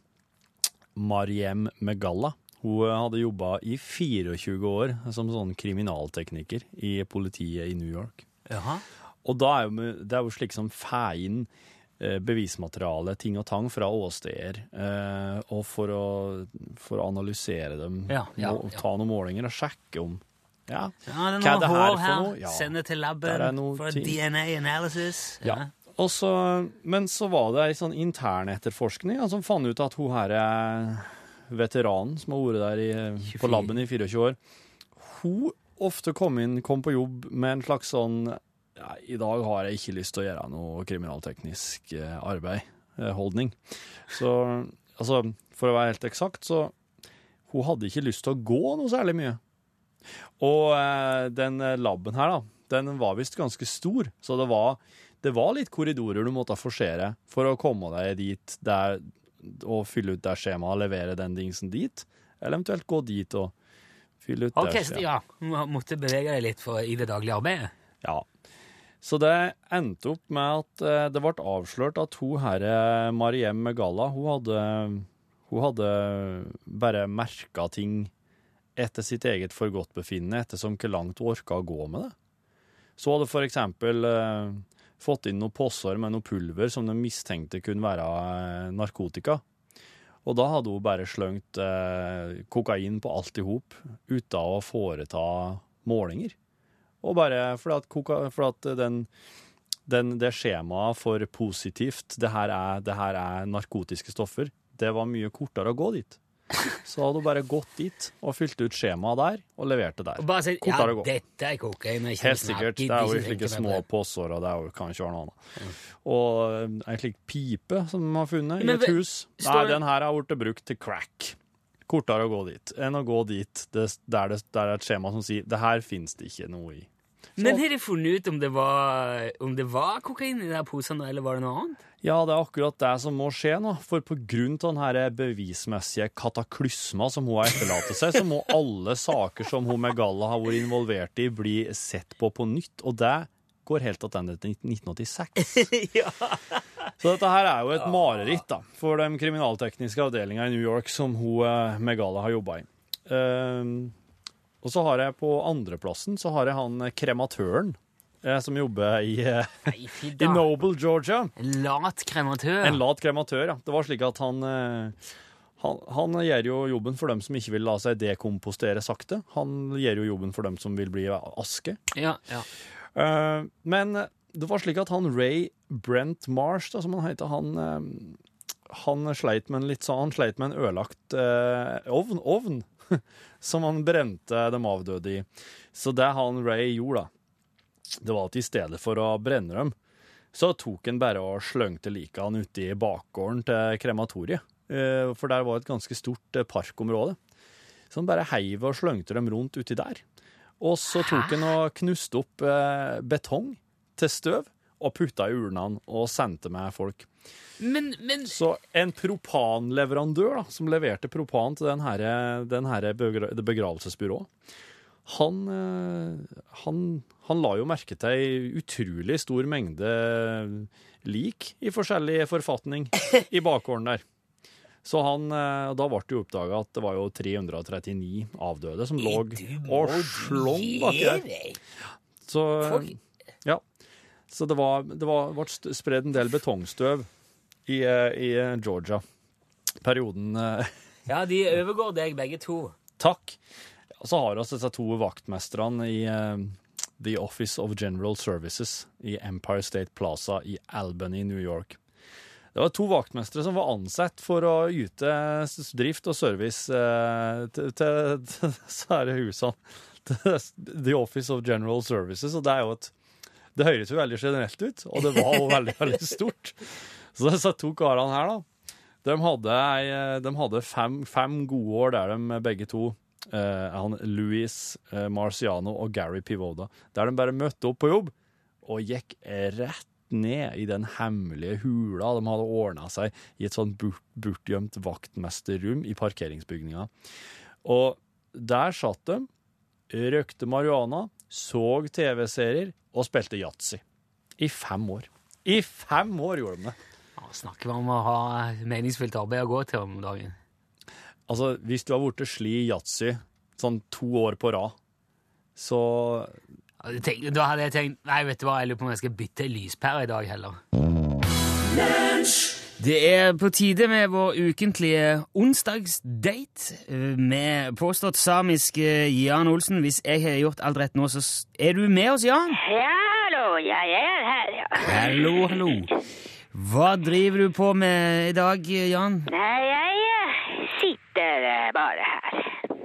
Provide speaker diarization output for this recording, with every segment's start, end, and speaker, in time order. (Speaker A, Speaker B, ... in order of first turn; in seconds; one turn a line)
Speaker A: 0.9-8.2
Speaker B: 8.5-8.8
Speaker A: 9.2-22.7
Speaker B: 18.1-18.8
Speaker B: 21.1-25.7
Speaker A: 23.2-24.2
Speaker A: 25.4-34.4
Speaker B: 33.2-33.7
Speaker A: 35.0-46.7
Speaker A: 47.5-49.4
Speaker A: 50.4-63.5
Speaker A: 64.2-65.0
Speaker B: 64.5-67.7
Speaker A: 69.0-78.1
Speaker A: 78.8-82.2
Speaker A: 83.0-89.4
Speaker A: 90.2-96.3
Speaker A: 97.0-99.1
Speaker A: 99.9-106.2
Speaker A: 106.8-111.1
Speaker B: 110.2-113.8
Speaker A: 112.2-115.4
Speaker A: 116.0-127.6
Speaker B: 118.6-119.8
Speaker B: 127.4-131.8
Speaker A: 132.0-145.7
Speaker B: 145.4-146.6
Speaker A: 147.0-153.9
Speaker B: 147.8-148.2
Speaker A: 154.6-161.3
Speaker B: 159.7-160.5
Speaker B: 161.4-162.8
Speaker A: 162.6-165.0
Speaker A: 165.6-171.8
Speaker B: 171.9-172.5
Speaker A: 172.9-187.1
Speaker A: 188.0-189.8
Speaker A: 190.3-197.2
Speaker A: 197.9-200.0
Speaker A: 200.6-207.1
Speaker B: 200.9-201.5
Speaker B: 207.6-208.4
Speaker A: 208.3-214.3
Speaker A: 215.1-224.0
Speaker A: 224.8-231.3
Speaker B: 229.0-231.6
Speaker A: 232.2-233.6
Speaker B: 232.6-232.9
Speaker A: 234.3-237.1
Speaker A: 237.7-239.0
Speaker A: 239.8-240.7
Speaker B: 241.1-242.8
Speaker A: 243.0-243.4
Speaker A: 244.0-251.8
Speaker A: 252.5-262.9
Speaker A: 263.6-266.6
Speaker A: 267.1-268.5
Speaker A: 269.0-286.9
Speaker A: 287.6-289.3
Speaker A: 289.9-293.8
Speaker A: 294.4-296.8
Speaker B: 297.2-300.4
Speaker A: 301.3-304.8
Speaker A: 305.6-306.4
Speaker B: 306.8-310.6
Speaker B: 312.8-322.6
Speaker C: 322.6-325.5
Speaker B: 324.8-326.0
Speaker B: 326.5-329.3
Speaker C: 329.3-332.7